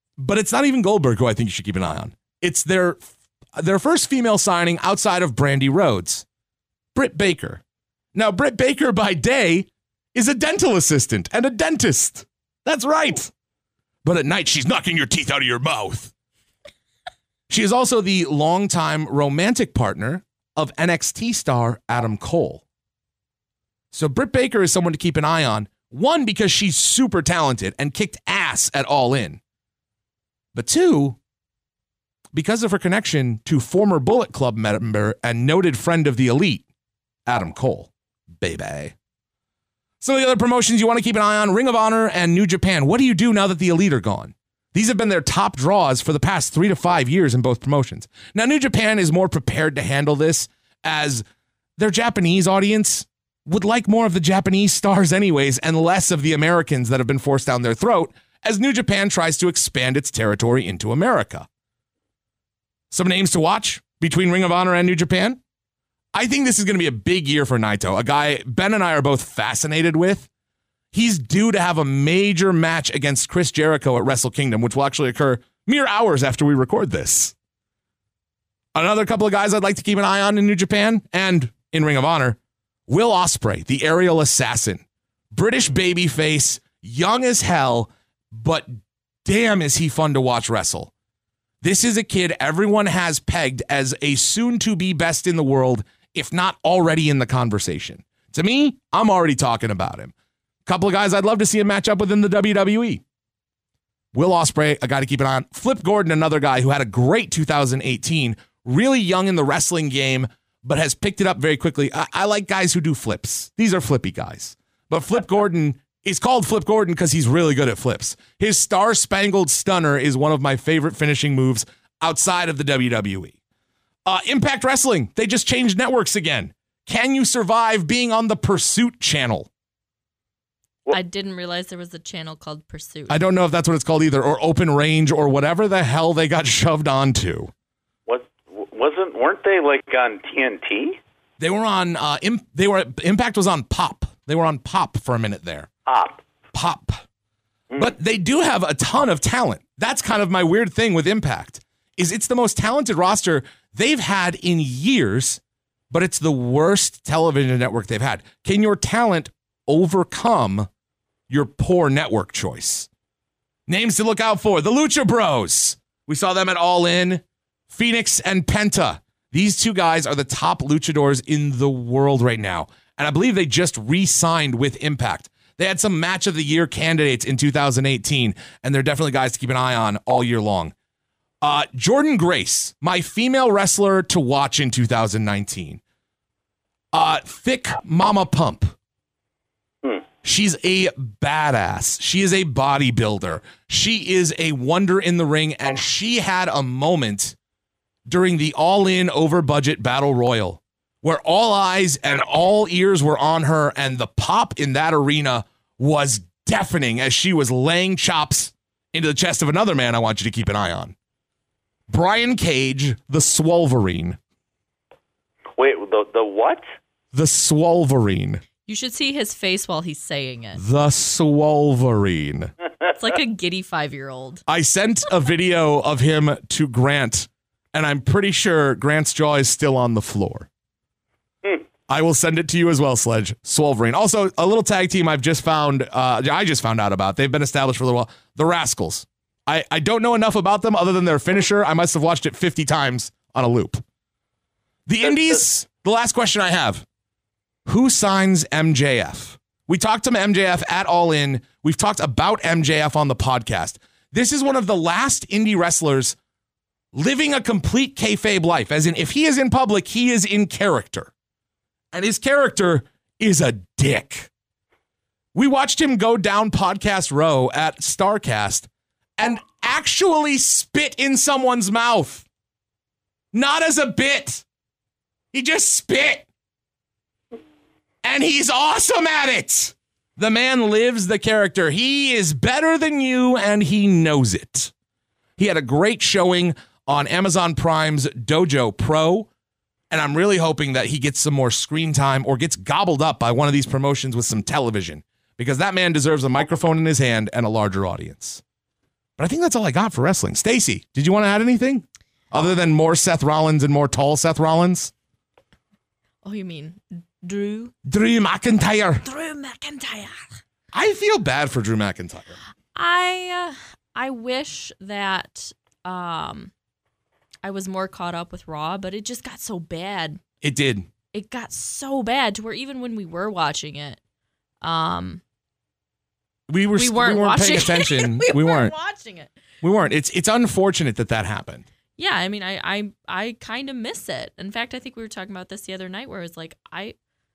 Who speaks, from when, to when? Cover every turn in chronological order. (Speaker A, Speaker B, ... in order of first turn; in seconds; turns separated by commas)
Speaker A: 0.2-3.0, Speaker A: 3.5-6.2, Speaker A: 6.9-7.6, Speaker A: 8.1-13.3, Speaker A: 14.0-16.1, Speaker A: 17.5-22.6, Speaker A: 23.9-29.4, Speaker A: 30.5-31.2, Speaker A: 32.3-36.6, Speaker A: 37.2-38.9, Speaker A: 40.0-51.2, Speaker A: 51.8-61.5, Speaker A: 62.9-65.4, Speaker A: 66.1-70.3, Speaker A: 70.9-77.3, Speaker A: 78.7-90.9, Speaker A: 91.6-100.1, Speaker A: 100.7-103.0, Speaker A: 104.1-123.3, Speaker A: 124.0-129.5, Speaker B: 130.9-133.2, Speaker A: 133.1-137.5, Speaker C: 138.1-141.0, Speaker A: 141.4-145.7, Speaker C: 145.9-146.2, Speaker A: 146.5-147.0, Speaker A: 147.8-160.7, Speaker A: 161.3-162.9, Speaker A: 163.7-180.7, Speaker A: 181.4-185.8, Speaker A: 186.9-188.7, Speaker A: 190.2-197.3, Speaker A: 198.1-210.9, Speaker A: 211.9-214.2, Speaker C: 215.6-216.6, Speaker A: 217.1-218.4, Speaker B: 218.6-220.6, Speaker A: 220.6-222.5, Speaker B: 222.9-224.4, Speaker A: 224.5-230.5, Speaker A: 231.9-243.8, Speaker A: 244.9-246.8, Speaker A: 247.7-256.2, Speaker A: 256.9-261.1, Speaker A: 261.9-264.3, Speaker A: 265.3-272.2, Speaker A: 273.3-274.4, Speaker A: 275.3-276.3, Speaker A: 278.0-284.7, Speaker A: 285.4-289.3, Speaker A: 289.9-298.4, Speaker A: 299.2-304.9, Speaker B: 306.2-307.7, Speaker A: 307.9-309.0, Speaker B: 309.0-310.4, Speaker A: 310.7-312.4, Speaker B: 312.7-316.5, Speaker B: 317.4-320.2, Speaker A: 320.4-320.9, Speaker B: 321.1-324.0, Speaker B: 324.6-325.2, Speaker A: 326.5-328.7, Speaker B: 326.8-329.3, Speaker A: 329.6-331.6, Speaker B: 332.0-336.9